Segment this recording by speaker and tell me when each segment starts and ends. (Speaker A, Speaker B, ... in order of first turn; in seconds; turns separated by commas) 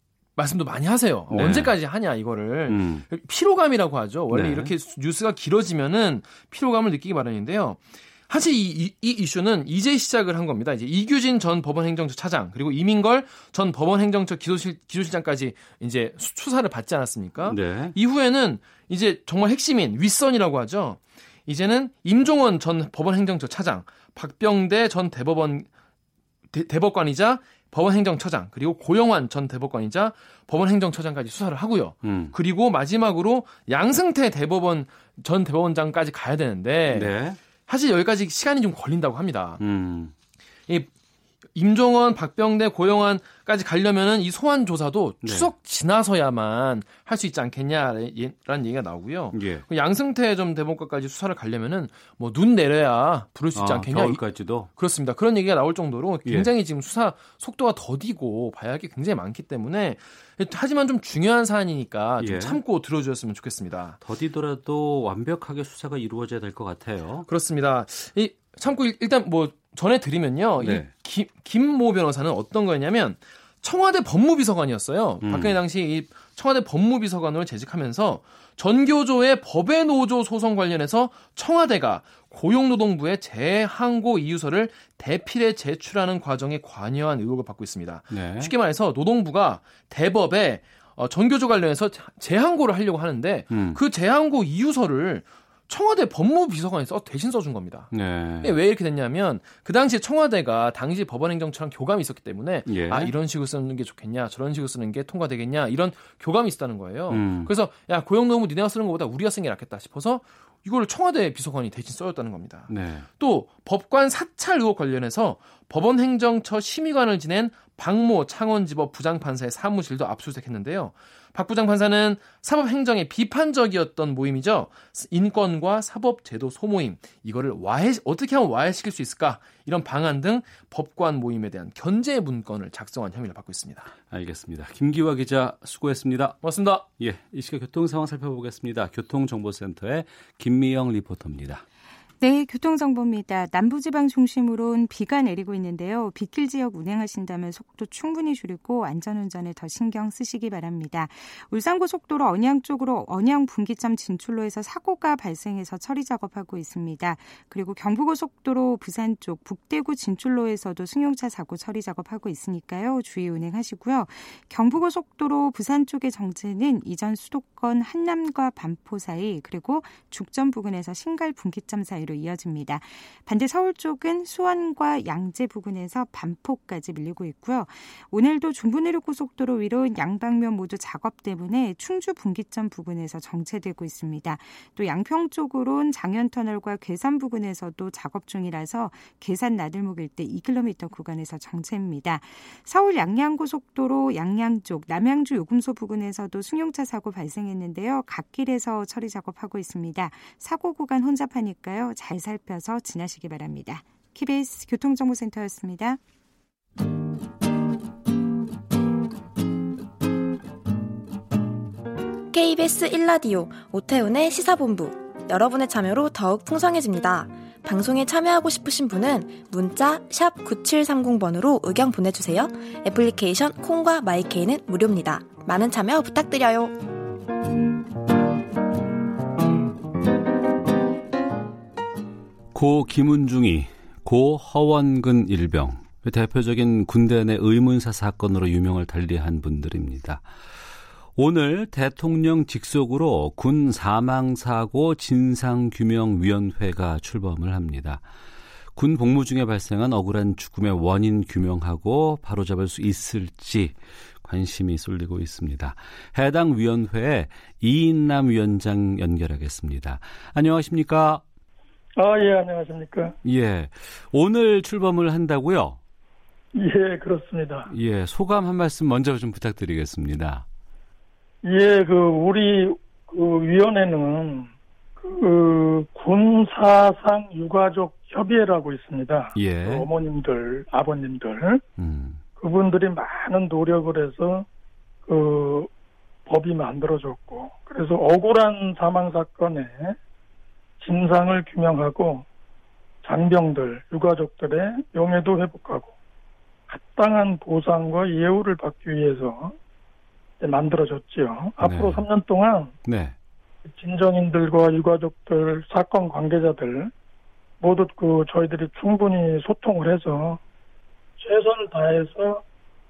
Speaker A: 0.4-25.7, Speaker B: 1.3-1.8, Speaker B: 2.7-3.1, Speaker B: 4.3-4.7, Speaker B: 17.5-18.0, Speaker A: 26.5-37.1, Speaker B: 32.0-32.3, Speaker B: 36.9-37.4, Speaker A: 37.7-39.6, Speaker B: 39.6-40.1, Speaker A: 41.5-64.0, Speaker B: 45.2-45.5, Speaker B: 49.3-49.6, Speaker B: 53.5-54.7, Speaker B: 56.2-56.5, Speaker B: 62.2-62.6, Speaker B: 64.0-67.3, Speaker A: 67.3-133.9, Speaker B: 70.6-70.9, Speaker B: 75.2-75.6, Speaker B: 88.1-88.5, Speaker B: 93.5-93.8, Speaker B: 97.9-98.5, Speaker B: 102.7-103.1, Speaker B: 107.1-107.5, Speaker B: 112.7-113.1, Speaker B: 134.1-136.4, Speaker A: 136.4-136.9, Speaker B: 137.0-141.6, Speaker C: 142.2-206.0, Speaker D: 212.3-226.8, Speaker B: 232.5-240.3, Speaker B: 241.2-248.1, Speaker B: 248.8-261.2, Speaker E: 262.0-263.2, Speaker B: 263.2-265.8, Speaker E: 266.6-267.7, Speaker B: 267.7-270.5, Speaker E: 271.4-281.6, Speaker B: 279.3-279.9, Speaker B: 281.8-282.2, Speaker E: 282.4-284.5, Speaker E: 285.1-285.7, Speaker E: 286.3-290.0, Speaker E: 290.8-292.3, Speaker E: 293.0-295.9, Speaker E: 296.7-299.6, Speaker E: 300.4-302.8, Speaker B: 301.6-302.1, Speaker B: 302.9-303.2, Speaker E: 303.8-306.9, Speaker E: 307.6-310.4, Speaker E: 311.2-312.4